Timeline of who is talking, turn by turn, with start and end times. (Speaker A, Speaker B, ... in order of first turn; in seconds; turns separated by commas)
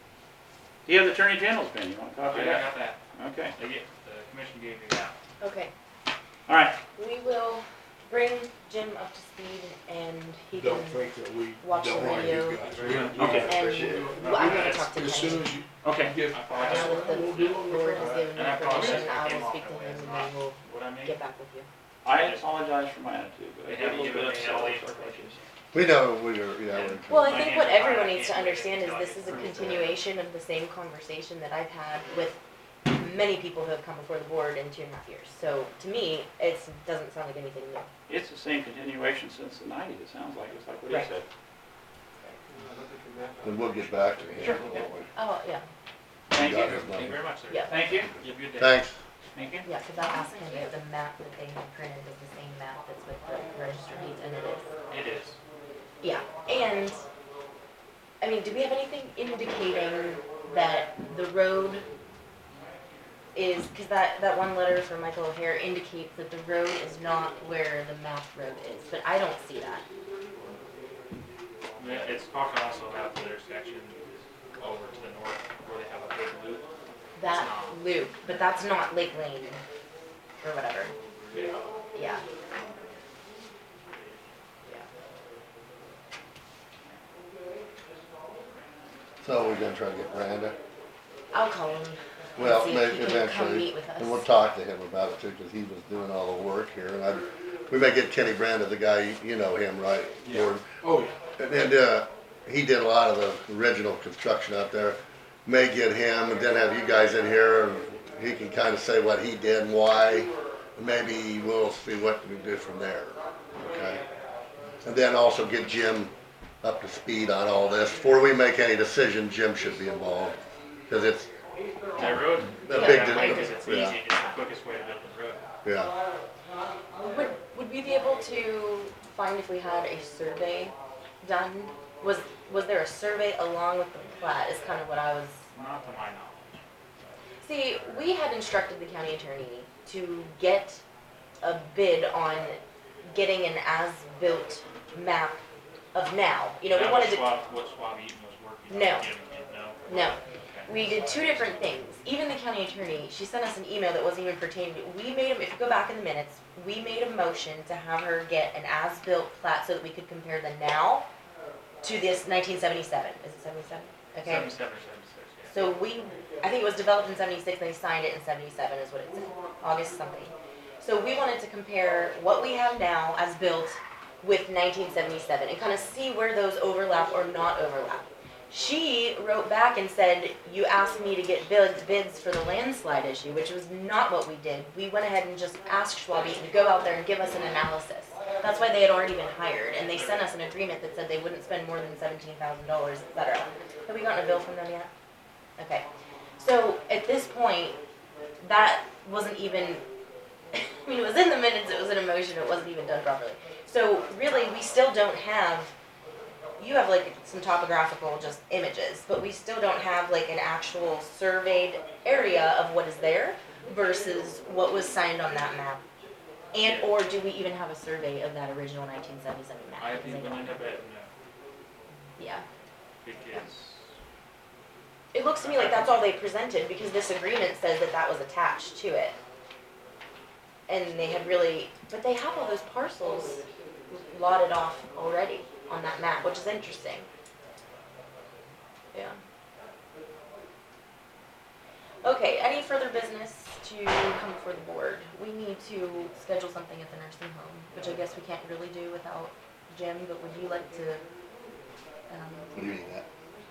Speaker A: 0.8-3.5, Speaker B: 2.2-3.0, Speaker B: 3.5-5.2, Speaker C: 5.4-5.7, Speaker A: 6.5-6.8, Speaker C: 6.9-11.0, Speaker D: 10.5-18.3, Speaker C: 11.6-15.6, Speaker B: 12.0-13.4, Speaker A: 12.9-13.5, Speaker E: 13.2-14.1, Speaker B: 14.2-15.3, Speaker A: 15.8-16.1, Speaker B: 16.3-21.2, Speaker C: 16.5-21.7, Speaker A: 18.7-19.0, Speaker A: 22.0-25.3, Speaker B: 22.1-22.5, Speaker B: 23.6-25.5, Speaker E: 25.7-27.5, Speaker B: 26.7-29.9, Speaker C: 27.1-37.9, Speaker A: 38.1-41.2, Speaker D: 42.5-44.8, Speaker E: 43.4-45.1, Speaker C: 45.1-45.6, Speaker E: 46.3-47.2, Speaker A: 46.3-46.8, Speaker B: 46.4-48.9, Speaker C: 47.5-47.7, Speaker A: 47.7-48.1, Speaker E: 48.1-49.0, Speaker A: 49.3-49.6, Speaker C: 49.6-54.7, Speaker B: 54.9-55.4, Speaker C: 56.0-57.0, Speaker C: 58.2-61.8, Speaker C: 63.3-69.8, Speaker B: 71.8-74.0, Speaker B: 74.6-76.6, Speaker C: 77.2-79.6, Speaker B: 77.3-77.8, Speaker C: 80.4-80.9, Speaker C: 81.9-82.2, Speaker E: 89.2-90.5, Speaker C: 91.3-94.3, Speaker E: 92.4-100.7, Speaker D: 100.2-101.1, Speaker E: 101.4-114.0, Speaker E: 114.8-121.3, Speaker B: 122.0-125.4, Speaker E: 122.6-124.0, Speaker C: 122.7-123.7, Speaker E: 125.6-125.9, Speaker C: 127.0-135.4, Speaker B: 135.5-136.6, Speaker C: 137.4-140.8, Speaker C: 141.4-142.6, Speaker C: 143.1-145.4, Speaker C: 145.9-147.3, Speaker B: 146.7-151.5, Speaker C: 148.7-149.1, Speaker C: 149.8-161.1, Speaker C: 161.8-164.5, Speaker B: 164.2-165.7, Speaker C: 165.5-194.9, Speaker B: 189.9-190.3, Speaker C: 195.6-195.8, Speaker C: 196.4-197.8, Speaker C: 198.4-199.8, Speaker C: 200.5-205.7, Speaker C: 206.6-215.8, Speaker C: 216.5-220.6, Speaker B: 216.6-216.9, Speaker B: 219.8-221.1, Speaker C: 222.2-222.4, Speaker B: 223.0-223.9, Speaker C: 225.1-229.2, Speaker B: 225.4-226.1, Speaker C: 230.7-237.1, Speaker C: 238.9-239.2, Speaker C: 242.0-251.0, Speaker C: 252.1-252.7, Speaker E: 252.5-253.1